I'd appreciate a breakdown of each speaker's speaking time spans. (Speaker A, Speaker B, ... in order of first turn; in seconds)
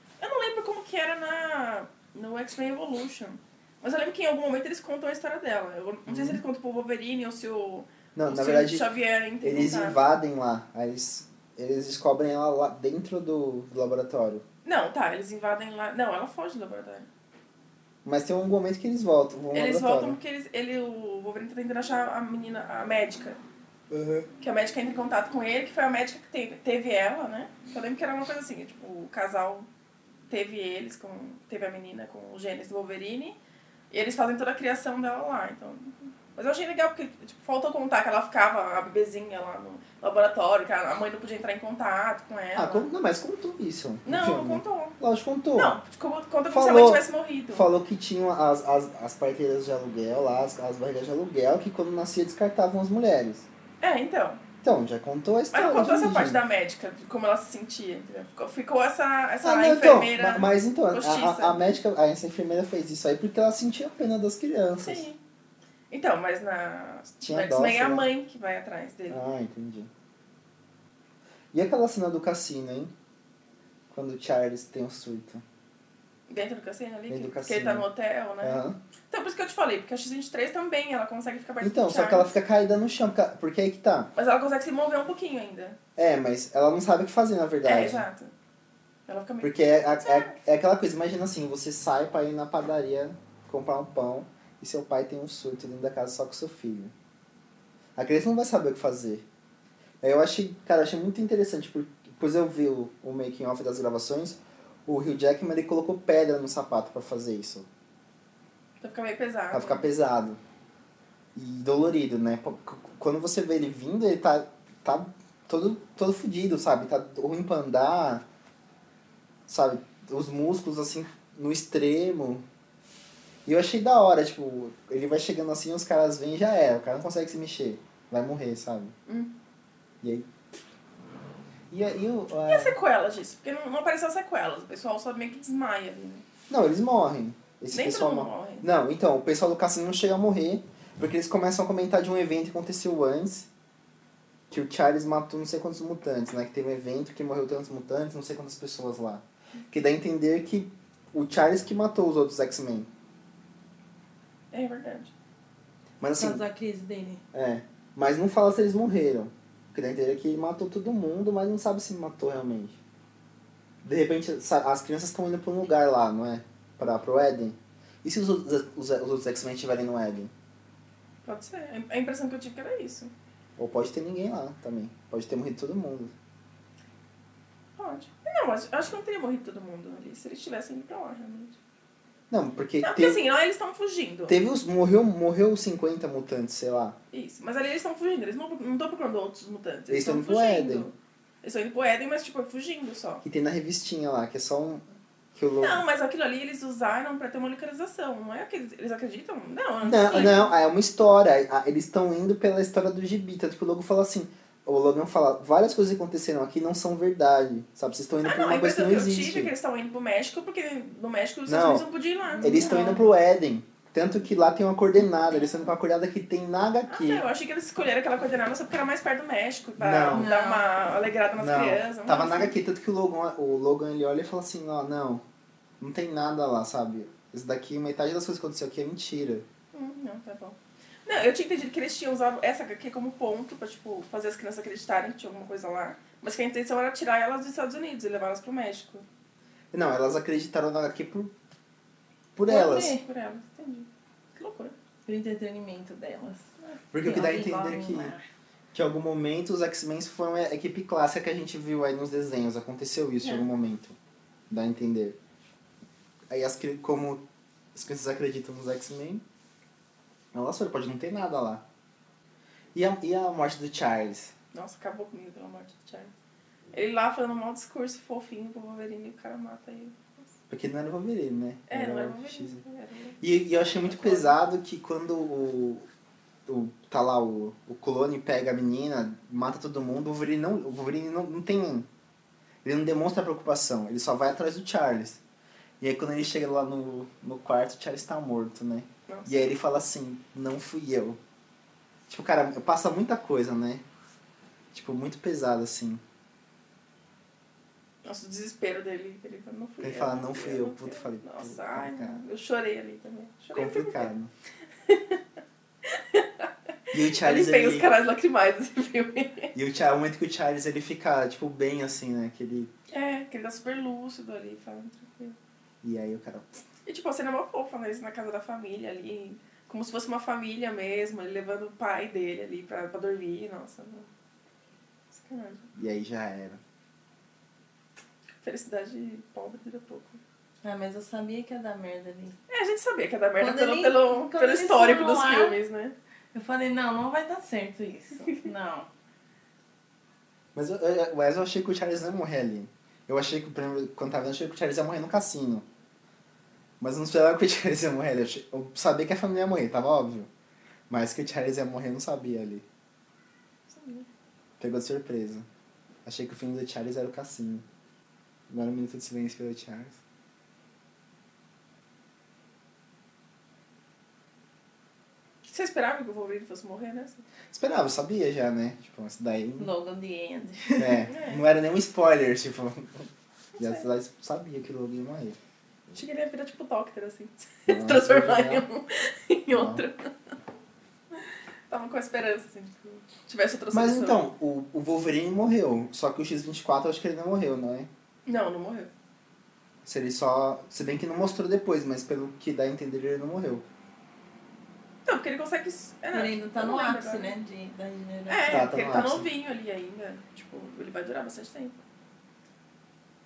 Speaker A: 0.2-10.0, 14.7-17.1, 19.5-23.4, 24.4-29.7, 30.3-33.4, 33.9-42.9, 44.0-45.0, 45.6-47.7, 53.8-54.4, 55.5-61.6, 64.8-65.2, 65.9-69.2, 76.3-82.3, 84.2-85.8, 87.7-88.3, 89.1-90.4, 108.8-109.9, 129.1-129.3, 132.5-136.2, 137.7-138.7, 154.5-155.1, 171.2-173.1, 177.8-181.6, 182.8-184.4, 187.1-193.2, 195.6-200.5, 208.2-212.6, 216.9-222.6, 229.7-239.1, 242.5-244.8, 264.5-266.1, 266.7-270.3, 271.7-273.2, 273.8-274.4, 289.1-289.4, 298.0-304.1, 304.9-305.2, 305.8-309.5, 312.9-315.4, 316.9-324.1, 325.1-325.7, 328.4-330.2, 332.5-335.9, 353.7-354.1, 365.4-367.2, 371.1-371.4, 373.6-373.9, 375.9-380.1, 381.2-384.2, 388.3-388.9, 395.1-397.3, 398.3-401.8
Speaker B: 6.1-6.4, 8.2-8.9, 9.4-14.4, 18.1-20.2, 23.9-24.3, 42.5-45.8, 46.5-53.5, 54.6-56.4, 59.4-65.1, 67.2-68.1, 69.1-69.9, 71.5-72.9, 73.9-75.4, 77.1-77.9, 78.4-78.8, 81.6-84.1, 86.0-88.0, 89.4-96.9, 98.0-99.2, 100.0-107.7, 109.5-110.4, 111.3-118.2, 119.5-122.5, 123.5-129.0, 130.0-130.3, 131.7-132.8, 136.5-143.5, 144.5-152.9, 156.0-156.4, 157.3-162.8, 163.8-170.3, 173.6-176.1, 182.3-183.2, 184.3-187.0, 189.9-190.9, 193.2-195.8, 199.8-209.5, 211.5-211.9, 212.4-217.2, 219.8-220.3, 221.4-225.2, 225.8-229.5, 239.7-241.3, 242.3-243.0, 246.9-248.1, 248.7-254.0, 254.5-255.2, 256.3-257.2, 257.7-259.2, 260.3-261.6, 262.7-264.3, 270.5-272.6, 273.2-275.9, 276.5-281.9, 282.6-285.2, 285.8-291.2, 292.1-293.8, 294.7-296.0, 299.8-302.2, 303.5-304.3, 306.9-307.9, 309.6-312.7, 315.8-316.6, 325.8-326.6, 340.6-345.7, 346.8-350.3, 350.9-352.6, 354.6-355.5, 356.1-357.6, 358.5-360.0, 367.5-369.7, 370.8-373.1, 373.6-375.4, 377.7-378.6, 379.5-379.9, 383.7-387.9, 389.9-393.6, 398.5-399.3
Speaker C: 156.2-157.2, 212.4-213.1, 220.1-220.7, 242.5-242.8, 245.1-246.5, 247.0-248.2, 330.6-332.4, 333.4-335.6, 336.3-338.9, 369.6-371.0, 396.1-398.7